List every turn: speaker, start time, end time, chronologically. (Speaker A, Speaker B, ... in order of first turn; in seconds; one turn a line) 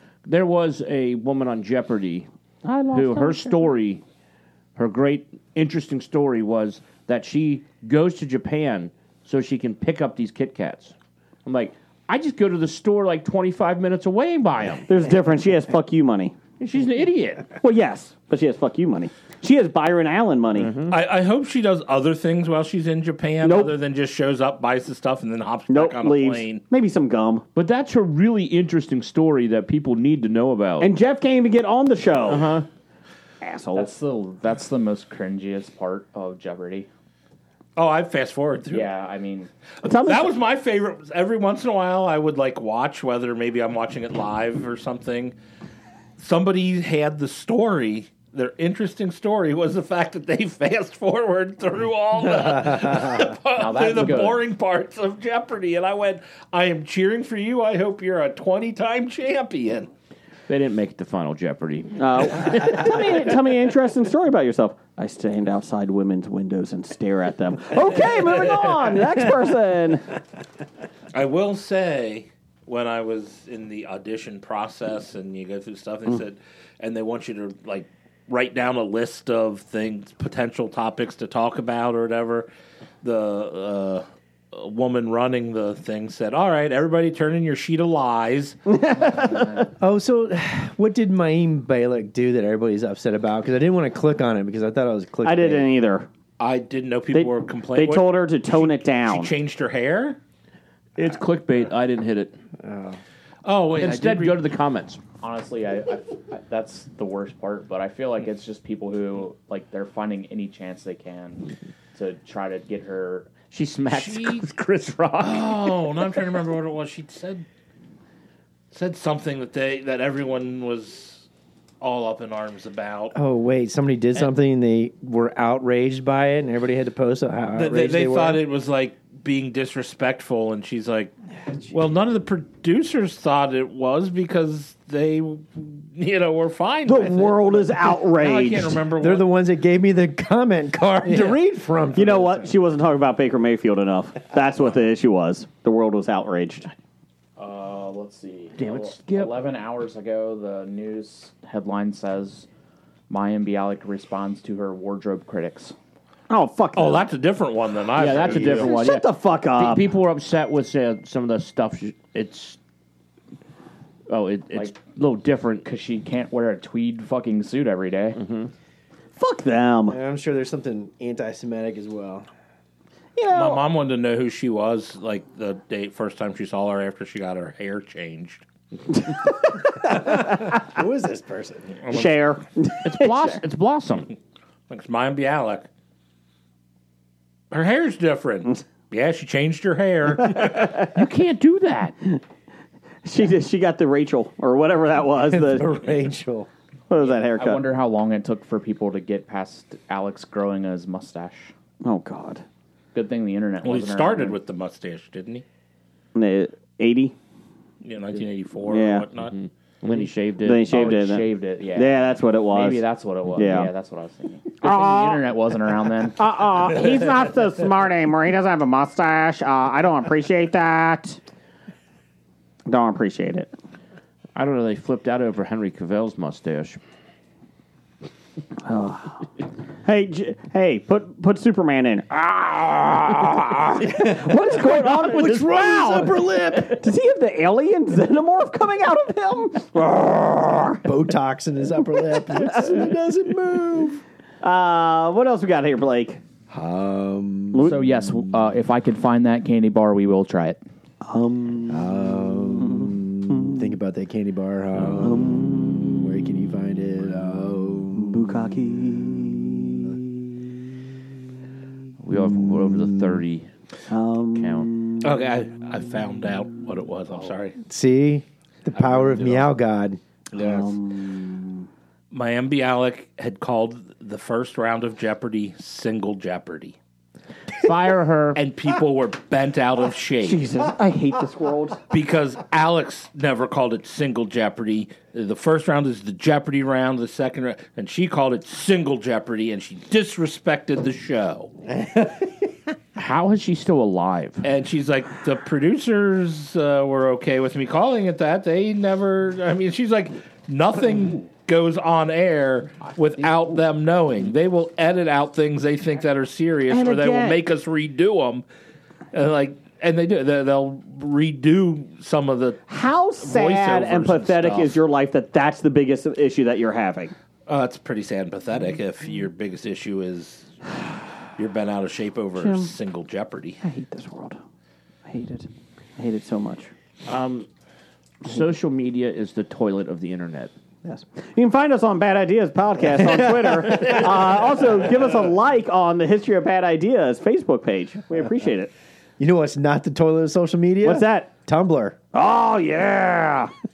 Speaker A: 0.2-2.3
Speaker B: 2.6-3.7
Speaker A: 2.9-4.0
Speaker A: 4.8-10.9
Speaker A: 11.4-14.9
Speaker B: 14.9-16.4
Speaker A: 16.6-17.5
Speaker B: 17.6-20.7
Speaker A: 20.7-20.9
Speaker C: 20.9-26.6
Speaker B: 23.4-23.7
Speaker B: 25.7-27.4
Speaker A: 27.5-30.9
Speaker B: 30.8-32.5
Speaker A: 32.3-32.6
Speaker B: 33.4-33.9
Speaker D: 33.7-36.9
Speaker C: 37.8-38.9
Speaker D: 38.7-39.5
Speaker B: 39.8-40.3
Speaker C: 40.0-45.3
Speaker C: 46.2-59.9
Speaker D: 53.5-54.5
Speaker A: 60.5-63.3
Speaker B: 62.0-70.2
Speaker C: 71.1-82.5
Speaker C: 83.0-88.6
Speaker B: 88.7-89.7
Speaker E: 89.8-95.7
Speaker B: 95.2-96.1
Speaker C: 96.4-100.2
Speaker B: 97.1-99.3
Speaker A: 101.0-102.3
Speaker E: 102.6-103.0
Speaker C: 103.4-104.4
Speaker A: 103.8-105.0
Speaker D: 105.2-113.3
Speaker A: 113.5-115.8
Speaker C: 113.9-114.4
Speaker C: 115.2-117.4
Speaker C: 118.7-121.2
Speaker C: 121.8-123.1
Speaker E: 123.1-128.4
Speaker C: 127.5-131.1
Speaker C: 131.7-139.2
Speaker B: 136.8-138.8
Speaker E: 139.0-142.5
Speaker C: 141.0-141.4
Speaker B: 141.9-146.7
Speaker D: 147.4-152.5
Speaker A: 148.6-149.4
Speaker D: 153.1-155.8
Speaker B: 156.3-157.1
Speaker C: 156.7-158.8
Speaker A: 157.9-162.6
Speaker B: 158.3-159.8
Speaker A: 164.1-165.7
Speaker D: 165.6-168.2
Speaker A: 168.2-168.5
Speaker B: 169.2-170.0
Speaker E: 169.9-172.3
Speaker B: 173.2-173.7
Speaker C: 173.3-178.4
Speaker E: 179.9-181.8
Speaker C: 181.8-182.1
Speaker B: 181.9-183.4
Speaker A: 182.8-184.1
Speaker C: 184.7-185.7
Speaker C: 187.5-190.8
Speaker B: 190.4-190.7
Speaker A: 190.7-191.9
Speaker B: 193.0-195.7
Speaker E: 195.3-196.5
Speaker B: 196.9-197.6
Speaker D: 197.3-201.5
Speaker B: 201.8-202.4
Speaker D: 202.9-204.4
Speaker C: 203.6-205.4
Speaker B: 206.1-207.1
Speaker C: 207.8-209.3
Speaker B: 208.7-209.0
Speaker A: 209.2-211.0
Speaker B: 210.4-212.8
Speaker D: 210.7-216.2
Speaker B: 213.3-213.7
Speaker B: 214.6-215.2
Speaker B: 216.2-221.2
Speaker B: 222.7-223.5
Speaker A: 224.3-226.8
Speaker B: 228.6-229.3
Speaker B: 229.8-240.8
Speaker E: 233.8-236.9
Speaker E: 240.8-244.0
Speaker B: 242.0-242.7
Speaker B: 244.4-246.2
Speaker E: 246.5-247.7
Speaker B: 247.5-247.8
Speaker D: 247.7-250.6
Speaker B: 251.0-253.6
Speaker E: 251.7-259.0
Speaker B: 255.0-255.8
Speaker B: 257.9-259.8
Speaker A: 262.0-263.5
Speaker E: 262.4-263.2
Speaker B: 263.9-265.1
Speaker A: 264.3-264.7
Speaker C: 265.0-267.6
Speaker E: 267.6-270.0
Speaker C: 268.7-269.1
Speaker B: 270.3-271.6
Speaker C: 270.4-270.7
Speaker C: 272.1-276.8
Speaker A: 277.6-278.4
Speaker C: 278.3-280.5
Speaker B: 280.2-281.8
Speaker C: 281.9-291.5
Speaker E: 291.9-292.2
Speaker A: 292.9-294.4
Speaker C: 294.4-308.4
Speaker D: 303.2-303.5
Speaker B: 306.7-307.4
Speaker C: 309.1-312.6
Speaker B: 312.7-317.1
Speaker C: 313.2-314.8
Speaker C: 317.5-320.5
Speaker C: 321.4-323.6
Speaker B: 322.4-322.7
Speaker B: 323.6-324.4
Speaker B: 325.1-326.7
Speaker A: 327.1-327.5
Speaker A: 328.2-330.5
Speaker B: 330.8-338.7
Speaker E: 333.0-333.9
Speaker E: 339.2-342.0
Speaker B: 340.8-341.3
Speaker B: 342.1-343.5